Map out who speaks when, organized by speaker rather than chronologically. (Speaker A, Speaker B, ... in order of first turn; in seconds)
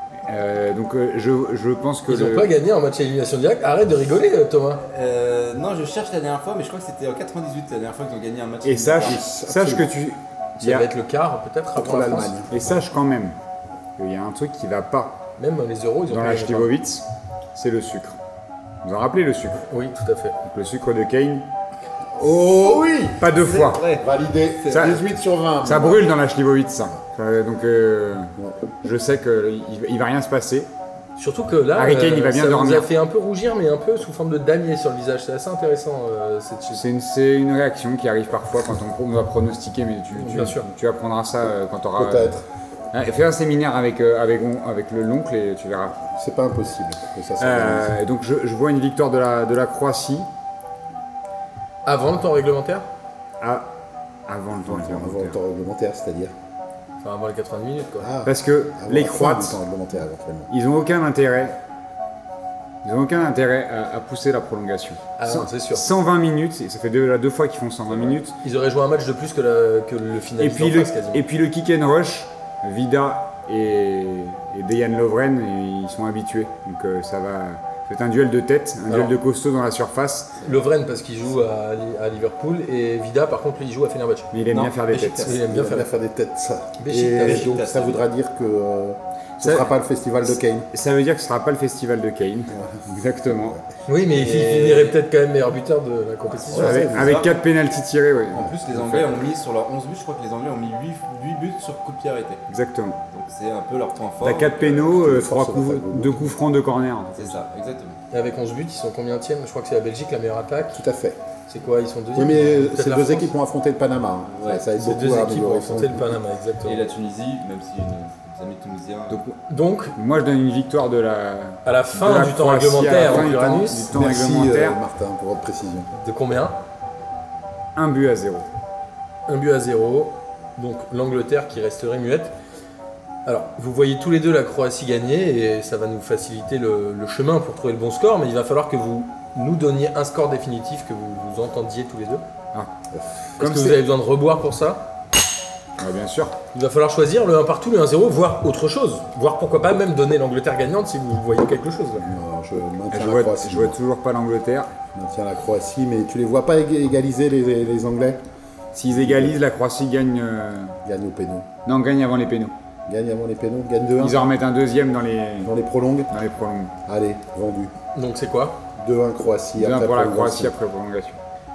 Speaker A: 0.2-2.5, 8.6-10.9, 12.5-13.3, 14.0-15.2, 16.1-18.2, 18.8-19.6, 20.4-21.5, 23.2-23.8, 24.7-25.0, 25.6-30.7, 31.7-32.9, 36.7-42.3, 42.9-46.0, 47.4-50.3, 53.4-53.7, 54.3-55.4, 58.2-59.6, 60.5-61.6, 62.8-68.3, 70.4-80.3, 84.3-85.4, 89.4-89.7, 90.7-93.6, 96.5-99.1, 102.5-103.0, 104.2-107.4, 119.1-119.4, 120.0-124.8, 127.8-128.5, 143.4-143.8, 145.8-146.4, 152.9-154.7, 158.7-160.8, 161.6-162.5, 164.0-165.5, 166.1-166.7, 169.6-171.2
Speaker B: 2.1-4.8, 10.6-12.4, 15.4-16.7, 19.7-20.4, 31.2-36.8, 40.1-40.7, 51.9-52.9, 57.0-58.1, 65.2-65.8, 68.4-71.2, 78.9-79.2, 80.4-84.3, 85.2-85.9, 86.8-87.5, 93.9-96.9, 108.1-110.8, 111.5-113.3, 114.7-116.8, 119.5-120.0, 121.6-123.9, 126.0-126.5, 129.3-132.3, 133.2-142.2, 143.4-144.8, 146.5-152.1, 167.9-168.6
Speaker C: 4.8-9.2, 22.4-24.1, 24.6-25.0, 84.5-85.4, 87.2-88.1, 94.1-95.0, 96.5-97.4, 98.3-102.4, 103.1-105.0, 107.2-108.0, 116.6-119.2
Speaker D: 9.0-9.9, 11.8-12.5, 22.1-22.9, 24.0-26.1, 42.0-42.5, 46.1-48.0, 54.5-56.3, 58.0-60.5, 85.3-90.7, 92.5-93.6, 96.5-97.2, 104.9-106.3, 110.7-111.2, 112.1-116.2, 123.7-125.9, 152.0-153.8, 154.9-158.2, 158.9-159.4, 160.8-161.5, 162.9-164.2, 165.4-166.1, 166.8-167.7, 168.8-170.5